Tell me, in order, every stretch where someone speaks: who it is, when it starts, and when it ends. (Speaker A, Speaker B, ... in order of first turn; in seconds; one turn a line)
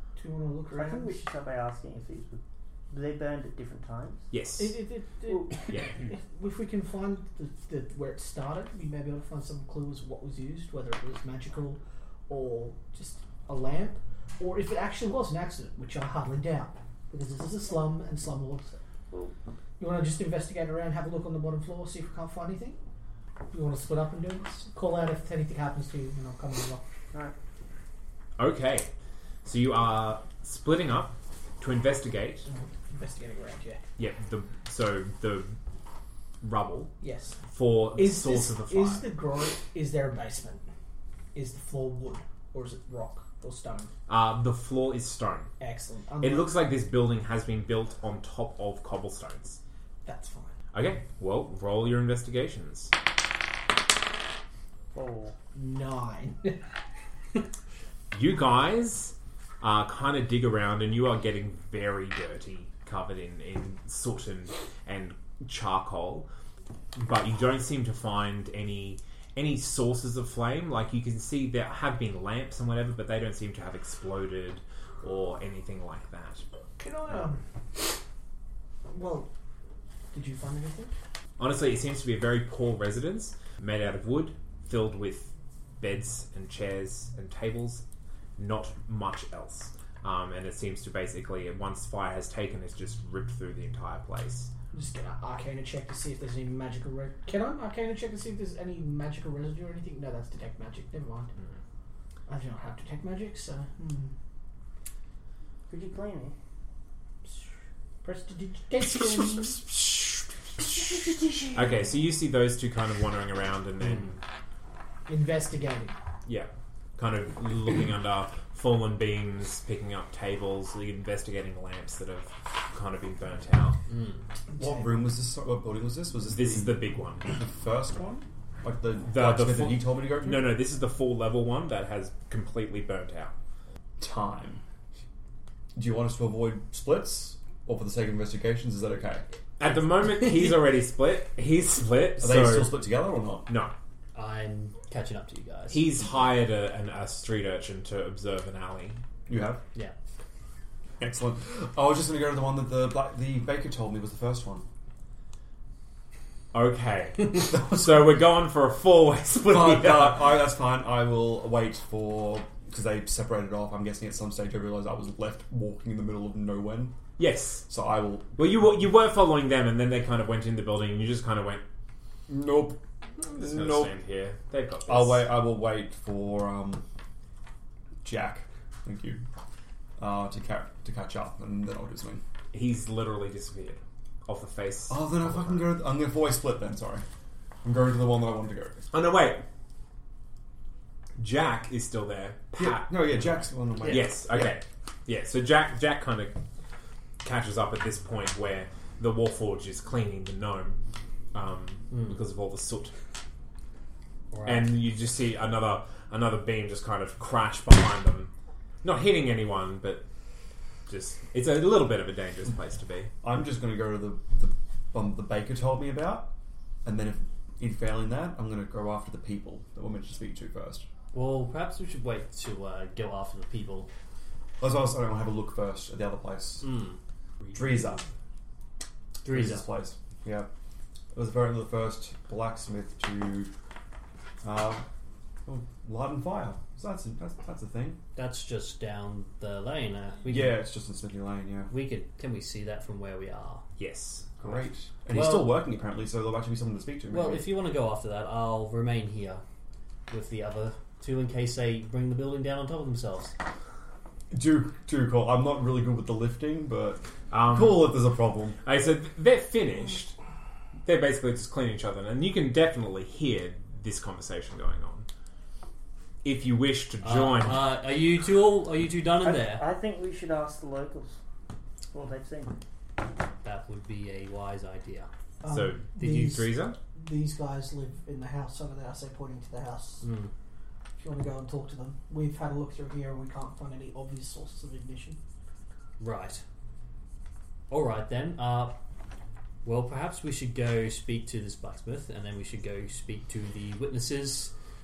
Speaker A: 0.2-1.3
Speaker B: 0.7-4.3
Speaker C: 4.3-4.8
Speaker A: 4.6-18.8
Speaker B: 5.3-5.8
Speaker A: 19.8-22.8
Speaker A: 23.5-26.8
Speaker C: 28.4-28.9
Speaker C: 29.4-32.5
Speaker A: 32.5-33.8
Speaker C: 34.0-35.6
Speaker C: 36.4-37.0
Speaker A: 37.0-37.4
Speaker C: 37.5-39.0
Speaker A: 38.0-40.6
Speaker A: 41.4-43.9
Speaker C: 44.1-45.5
Speaker A: 45.6-46.5
Speaker C: 46.2-49.6
Speaker A: 50.0-50.5
Speaker C: 50.7-52.9
Speaker B: 54.9-55.4
Speaker A: 55.5-56.6
Speaker C: 58.1-66.3
Speaker C: 67.0-76.4
Speaker A: 76.8-77.4
Speaker A: 78.9-79.3
Speaker A: 80.1-80.9
Speaker C: 81.4-87.8
Speaker C: 88.4-94.5
Speaker A: 94.7-101.3
Speaker A: 102.3-104.1
Speaker B: 105.7-106.4
Speaker A: 108.0-109.6
Speaker C: 108.9-110.8
Speaker A: 110.6-111.2
Speaker C: 111.5-114.2
Speaker A: 115.1-116.0
Speaker C: 116.3-123.8
Speaker D: 123.9-124.3
Speaker A: 124.5-125.1
Speaker E: 124.6-130.6
Speaker C: 126.3-127.2
Speaker C: 129.1-133.3
Speaker E: 134.0-134.6
Speaker E: 135.8-139.3
Speaker C: 139.6-142.8
Speaker E: 142.2-143.5
Speaker C: 143.5-143.7
Speaker D: 144.1-145.9
Speaker C: 145.7-149.0
Speaker E: 149.3-149.6
Speaker E: 151.0-154.7
Speaker C: 156.5-160.3
Speaker E: 157.5-158.1
Speaker E: 159.4-167.0
Speaker C: 167.2-167.7
Speaker E: 167.7-168.6
Speaker C: 168.4-171.7
Speaker E: 172.3-173.9
Speaker C: 173.2-175.3
Speaker E: 174.9-176.8
Speaker E: 178.0-179.2
Speaker E: 180.0-182.2
Speaker C: 182.5-185.7
Speaker E: 184.9-187.1
Speaker E: 187.6-188.9
Speaker C: 188.9-189.4
Speaker C: 191.2-196.4
Speaker E: 192.6-194.6
Speaker C: 197.2-200.8
Speaker C: 201.3-202.9
Speaker D: 201.9-202.2
Speaker D: 204.3-204.7
Speaker C: 204.4-208.3
Speaker C: 208.8-210.1
Speaker C: 210.9-213.1
Speaker E: 213.2-216.3
Speaker E: 216.8-220.9
Speaker D: 221.1-223.9
Speaker E: 224.6-226.7
Speaker D: 226.6-227.6
Speaker E: 227.5-228.0
Speaker D: 229.2-229.7
Speaker E: 229.3-230.5
Speaker E: 231.1-233.5
Speaker E: 234.4-234.8
Speaker E: 235.5-238.0
Speaker D: 238.2-240.6
Speaker E: 240.3-241.7
Speaker D: 241.7-243.7
Speaker C: 243.8-244.3
Speaker E: 244.4-247.5
Speaker D: 245.1-245.6
Speaker D: 247.1-249.4
Speaker D: 250.1-253.4
Speaker E: 254.3-258.6
Speaker C: 257.3-258.0
Speaker C: 258.6-260.1
Speaker C: 260.9-265.1
Speaker C: 266.2-267.7
Speaker D: 267.0-269.7
Speaker B: 269.2-271.2
Speaker B: 271.9-272.6
Speaker D: 273.4-275.1
Speaker A: 275.4-280.1
Speaker C: 275.5-276.8
Speaker D: 280.0-280.3
Speaker A: 281.0-285.2
Speaker D: 286.0-286.4
Speaker D: 287.7-288.8
Speaker D: 289.6-294.5